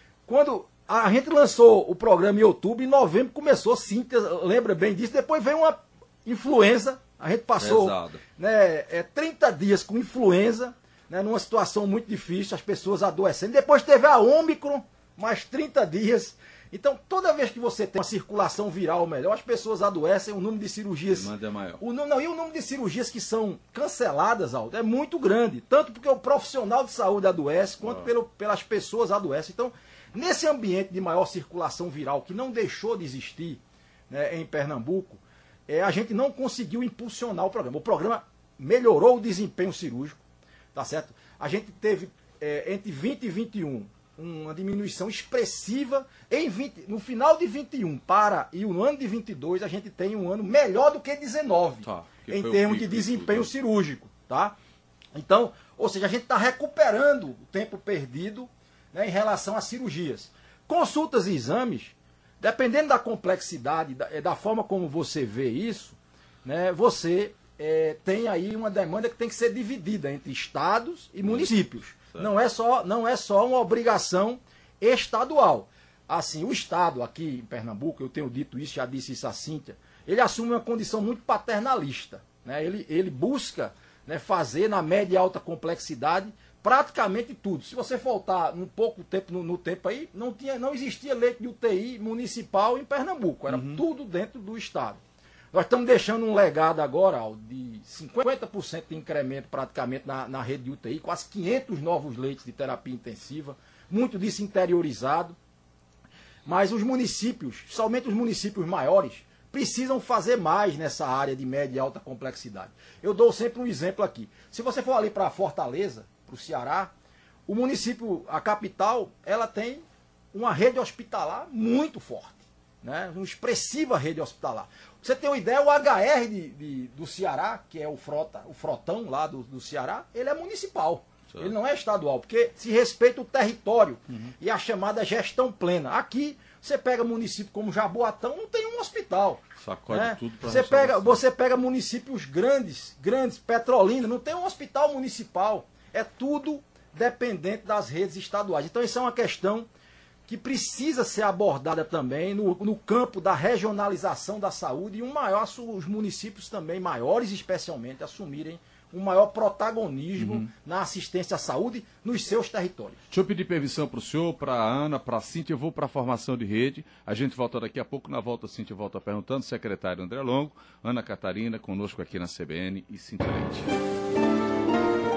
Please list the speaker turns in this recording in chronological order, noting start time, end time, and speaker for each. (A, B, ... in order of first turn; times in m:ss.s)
0:00.3-0:40.2 A
0:07.6-0:08.2 B
0:21.1-0:21.8 B
0:40.7-0:54.6 A
0:51.8-0:53.5 B
0:55.1-1:35.0 A
1:11.2-1:11.5 B
1:33.5-1:33.8 B
1:35.5-1:45.4 A
1:46.4-1:56.9 A
1:57.5-2:29.7 A
2:19.6-2:21.2 B
2:30.3-2:43.0 A
2:40.2-2:40.5 B
2:43.1-2:53.7 B